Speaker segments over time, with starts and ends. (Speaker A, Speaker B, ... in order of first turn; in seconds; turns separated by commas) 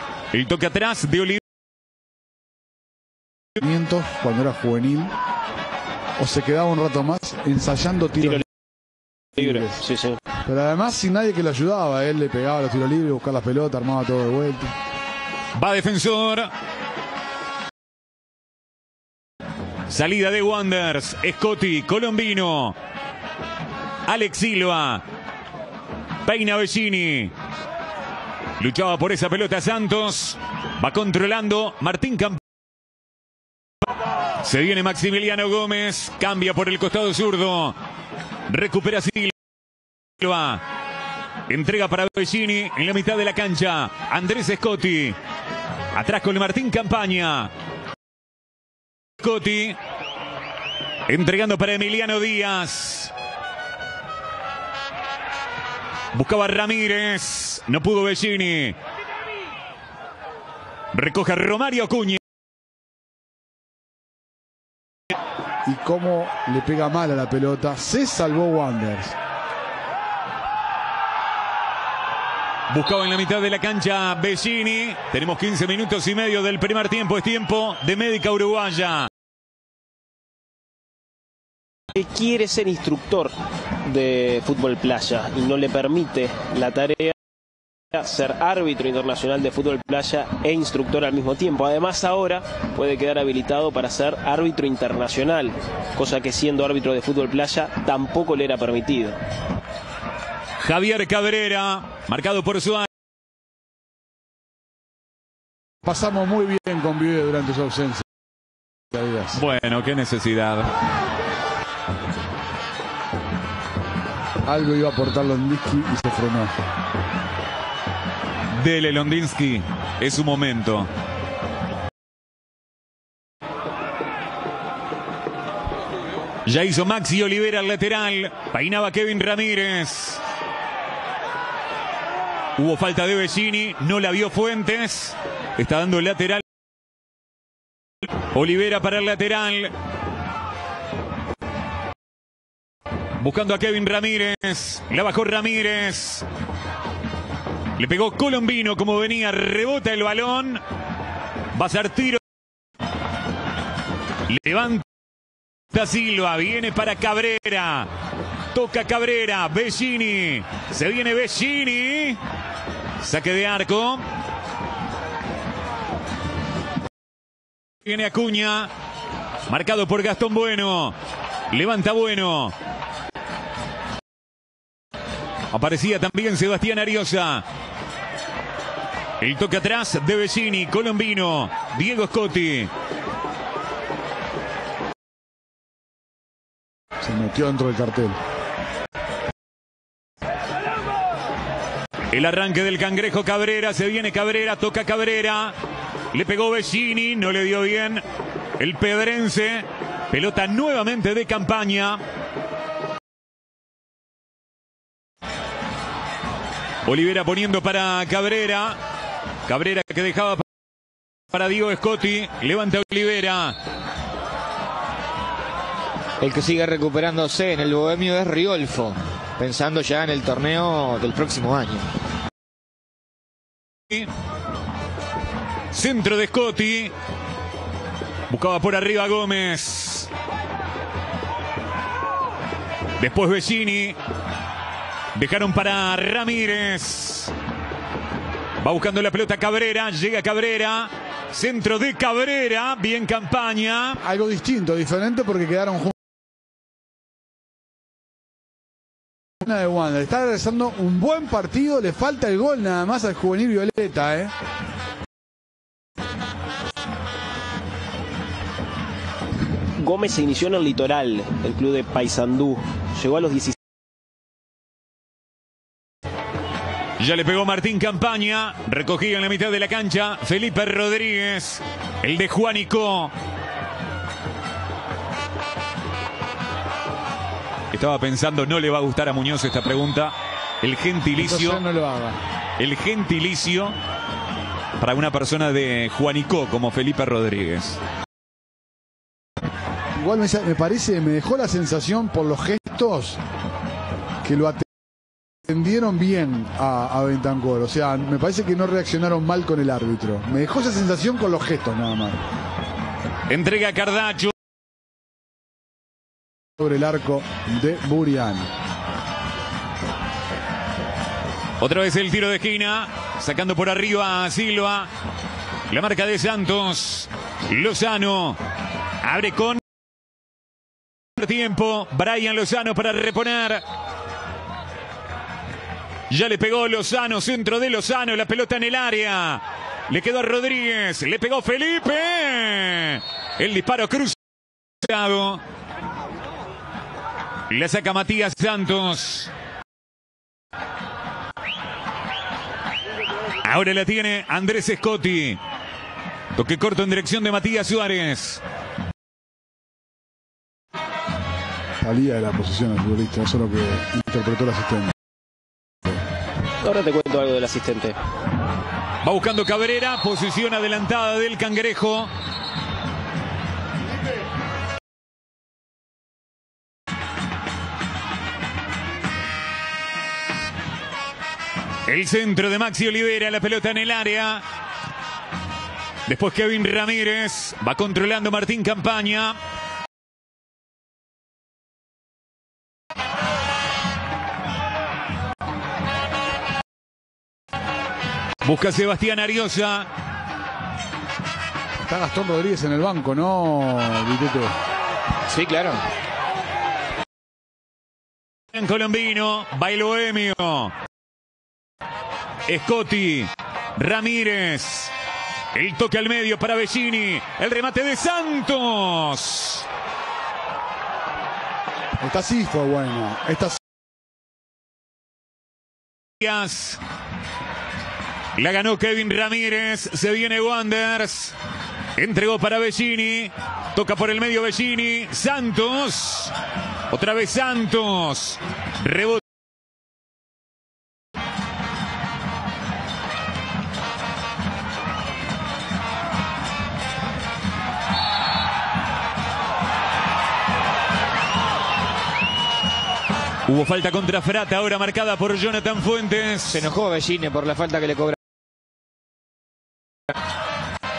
Speaker A: 0.3-1.4, Speaker B: 3.6-5.1, Speaker B: 6.2-8.4, Speaker B: 9.4-9.8, Speaker C: 9.4-10.2, Speaker B: 10.4-14.7, Speaker A: 15.5-16.5, Speaker A: 19.9-22.8, Speaker A: 24.1-25.0, Speaker A: 26.2-27.3, Speaker A: 28.6-32.4, Speaker A: 34.4-37.7, Speaker A: 38.5-39.3, Speaker A: 40.2-40.6, Speaker A: 41.5-45.2, Speaker A: 45.9-47.5, Speaker A: 49.2-49.8, Speaker A: 51.1-53.1, Speaker A: 56.1-58.7, Speaker A: 60.9-62.2, Speaker B: 65.6-69.2, Speaker A: 72.7-79.1, Speaker C: 81.9-87.1, Speaker C: 87.9-99.2, Speaker A: 100.6-102.9, Speaker B: 105.8-108.0, Speaker B: 108.9-109.4, Speaker A: 109.3-110.7, Speaker B: 114.4-116.5, Speaker A: 118.5-120.9, Speaker A: 126.5-130.2, Speaker A: 132.6-136.4, Speaker A: 138.3-139.7, Speaker A: 143.2-146.2, Speaker A: 147.8-150.6, Speaker A: 151.5-152.2, Speaker A: 154.3-154.8, Speaker A: 155.7-157.9, Speaker A: 158.5-162.2, Speaker A: 163.0-164.0, Speaker A: 167.8-168.7, Speaker A: 169.5-170.9, Speaker A: 171.5-172.5, Speaker A: 175.5-177.4, Speaker A: 179.2-182.7, Speaker B: 187.0-188.2, Speaker A: 192.1-195.5, Speaker A: 196.1-198.0, Speaker A: 198.6-202.0, Speaker A: 206.8-208.8, Speaker A: 209.5-210.4, Speaker A: 211.3-213.6, Speaker D: 216.2-221.9, Speaker A: 225.7-226.9, Speaker A: 228.3-230.1, Speaker A: 233.0-233.9, Speaker A: 235.1-237.3, Speaker A: 238.6-244.0, Speaker B: 244.0-245.9, Speaker B: 249.4-254.3, Speaker C: 259.8-263.5, Speaker A: 267.0-273.1, Speaker A: 277.7-281.6, Speaker B: 281.2-282.2, Speaker A: 282.6-283.8, Speaker A: 284.8-287.8, Speaker B: 289.9-293.2, Speaker B: 294.2-294.6, Speaker B: 295.4-302.2, Speaker A: 303.3-304.3, Speaker B: 306.6-308.5, Speaker A: 311.6-314.9, Speaker A: 315.7-318.4, Speaker A: 319.0-319.6, Speaker A: 321.1-323.6, Speaker A: 326.1-334.2, Speaker A: 334.8-335.4, Speaker A: 337.5-339.3, Speaker A: 343.4-345.4, Speaker A: 346.3-348.4, Speaker B: 351.8-354.9, Speaker C: 356.6-357.9, Speaker A: 359.0-362.1, Speaker A: 371.9-374.4, Speaker A: 376.1-379.4, Speaker A: 388.4-389.9, Speaker B: 391.8-394.5, Speaker D: 395.3-395.8, Speaker A: 398.5-400.7, Speaker A: 402.4-404.9, Speaker A: 405.5-409.6, Speaker B: 412.0-413.6, Speaker A: 416.2-416.8, Speaker A: 418.4-421.3, Speaker A: 421.9-426.3, Speaker A: 426.9-429.2, Speaker A: 443.4-446.7, Speaker D: 446.5-448.2